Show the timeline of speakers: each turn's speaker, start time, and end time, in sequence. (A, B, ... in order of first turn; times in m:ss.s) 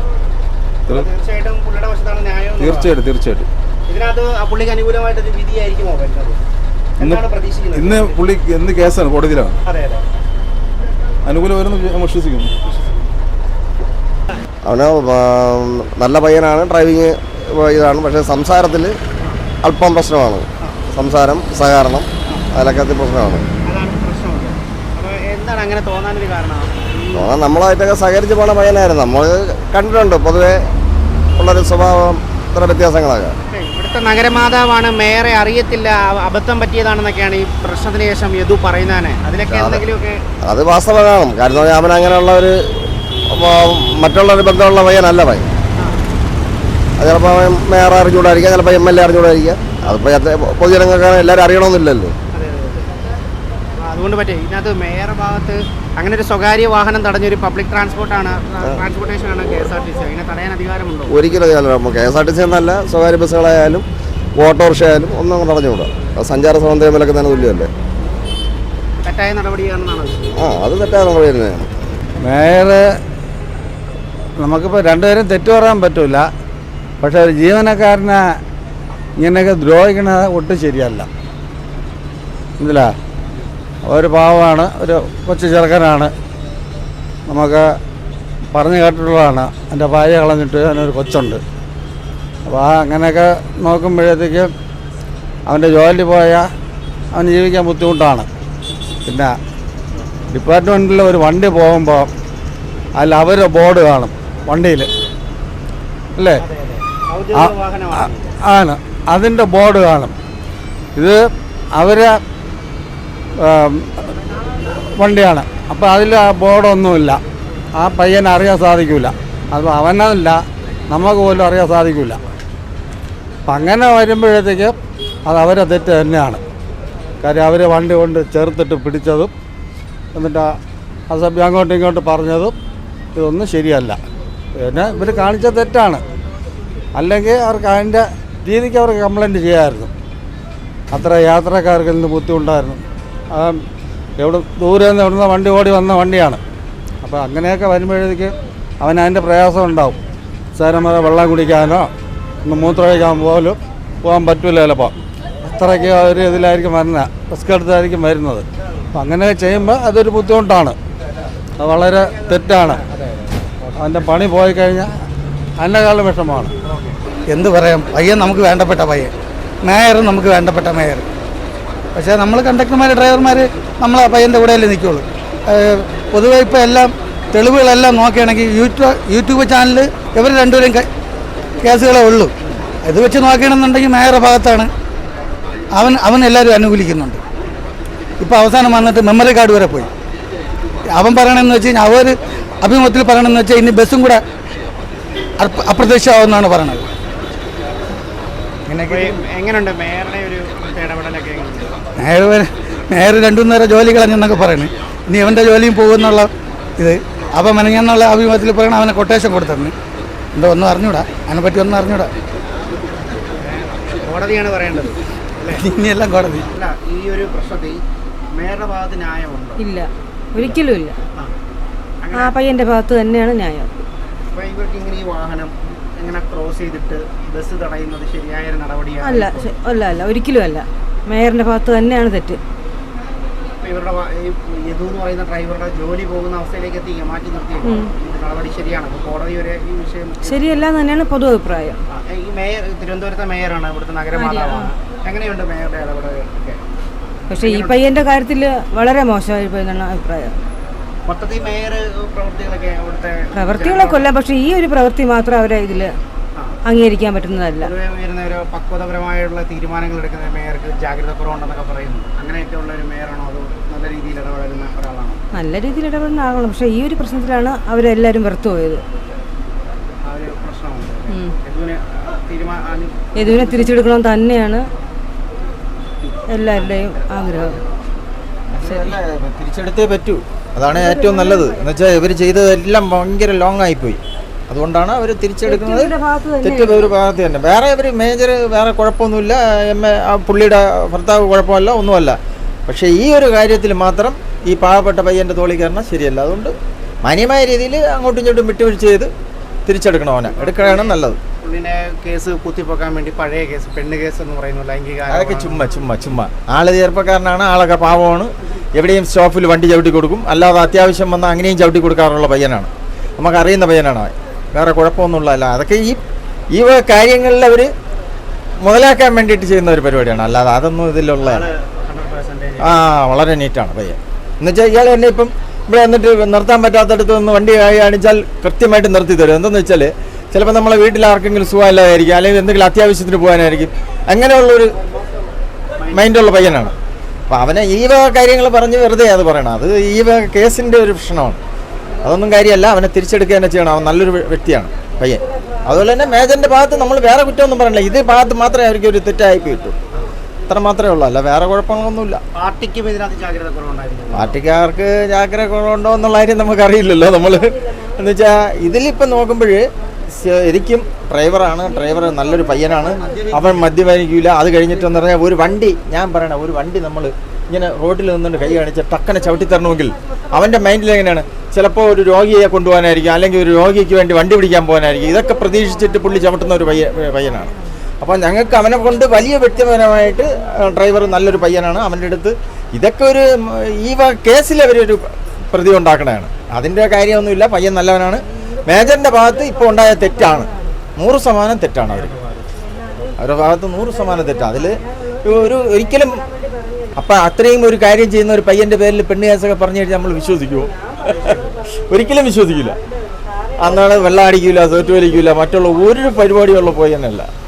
0:00.9-0:02.9 A
0:02.6-0:03.5 B
0:03.9-0:06.4 A
0:07.0-0:09.6 B
0:07.0-0:08.2 A
0:09.6-0:10.0 A
0:11.2-0:12.5 B
0:12.6-0:13.0 A
0:14.6-0:19.0 C
0:19.6-0:23.4 C
0:23.6-0:27.4 A
0:27.1-0:30.6 C
0:31.4-0:33.3 C
0:33.5-0:40.2 A
0:39.4-0:39.8 C
0:40.4-0:42.7 C
0:43.3-0:45.5 C
0:47.0-0:52.1 C
0:52.3-0:52.9 A
0:53.8-1:01.1 A
1:01.1-1:03.8 C
1:04.4-1:07.7 C
1:09.0-1:10.4 A
1:10.4-1:11.7 C
1:12.2-1:12.8 D
1:14.4-1:16.2 D
1:17.0-1:18.2 D
1:19.2-1:21.1 D
1:22.6-1:22.9 D
1:23.8-1:26.1 D
1:27.3-1:27.7 D
1:28.5-1:31.4 D
1:32.5-1:34.5 D
1:35.5-1:36.5 D
1:37.1-1:38.3 D
1:39.0-1:39.3 D
1:40.3-1:42.1 D
1:43.0-1:44.9 D
1:46.2-1:46.4 D
1:46.4-1:48.3 A
1:47.3-1:50.1 D
1:51.8-1:52.2 D
1:53.4-1:54.0 D
1:55.0-1:57.2 D
1:57.8-2:00.4 D
2:00.9-2:02.2 D
2:03.5-2:04.7 D
2:05.3-2:06.4 D
2:07.2-2:09.3 D
2:10.1-2:10.6 D
2:11.1-2:12.5 D
2:13.1-2:14.0 D
2:14.6-2:16.0 D
2:17.0-2:19.9 D
2:20.9-2:22.8 D
2:23.3-2:23.6 D
2:24.2-2:26.4 D
2:27.0-2:30.0 D
2:30.5-2:31.9 D
2:32.4-2:34.9 D
2:35.4-2:40.8 D
2:41.6-2:42.8 D
2:42.0-2:44.0 A
2:43.8-2:44.9 D
2:45.6-2:46.5 D
2:46.6-2:47.0 A
2:47.3-2:49.1 E
2:49.6-2:51.0 E
2:52.0-2:55.0 E
2:55.6-3:00.9 E
3:01.6-3:02.3 E
3:02.8-3:04.7 E
3:05.8-3:07.2 E
3:08.2-3:09.9 E
3:10.9-3:14.2 E
3:15.4-3:16.8 E
3:18.7-3:19.2 E
3:18.8-3:21.8 A
3:22.0-3:29.7 E
3:30.4-3:32.1 E
3:33.4-3:35.6 A
3:35.6-3:36.4 E
3:36.5-3:37.8 A
3:38.3-3:39.6 A
3:39.6-3:41.0 F
3:42.0-3:42.4 A
3:42.1-3:43.8 F
3:44.3-3:49.5 A
3:49.0-3:52.4 F
3:53.6-4:00.7 A
3:57.6-3:57.9 F
4:00.2-4:01.8 F
4:01.9-4:06.6 A
4:04.1-4:04.7 F
4:07.3-4:10.3 F
4:07.3-4:07.8 A
4:11.0-4:14.1 A
4:13.3-4:15.9 F
4:16.6-4:17.7 F
4:17.6-4:25.2 A
4:25.3-4:28.8 F
4:30.0-4:33.7 A
4:31.1-4:31.3 F
4:33.1-4:34.7 F
4:36.0-4:37.7 A
4:36.3-4:37.6 F
4:38.5-4:59.1 G
4:40.7-4:41.6 F
4:45.4-4:47.0 F
4:59.6-5:01.2 G
5:00.4-5:05.7 A
5:05.1-5:16.0 G
5:16.5-5:17.7 G
5:18.6-5:21.5 G
5:21.2-5:22.8 A
5:22.6-5:34.8 G
5:35.8-5:36.1 A
5:35.8-5:36.7 G
5:37.3-5:41.4 G
5:42.0-5:49.8 G
5:50.5-5:52.2 G
5:52.3-5:54.3 A
5:54.1-6:32.1 G
6:03.2-6:03.7 A
6:31.9-6:32.4 A
6:33.2-6:36.2 G
6:37.0-6:42.8 G
6:43.6-6:47.3 G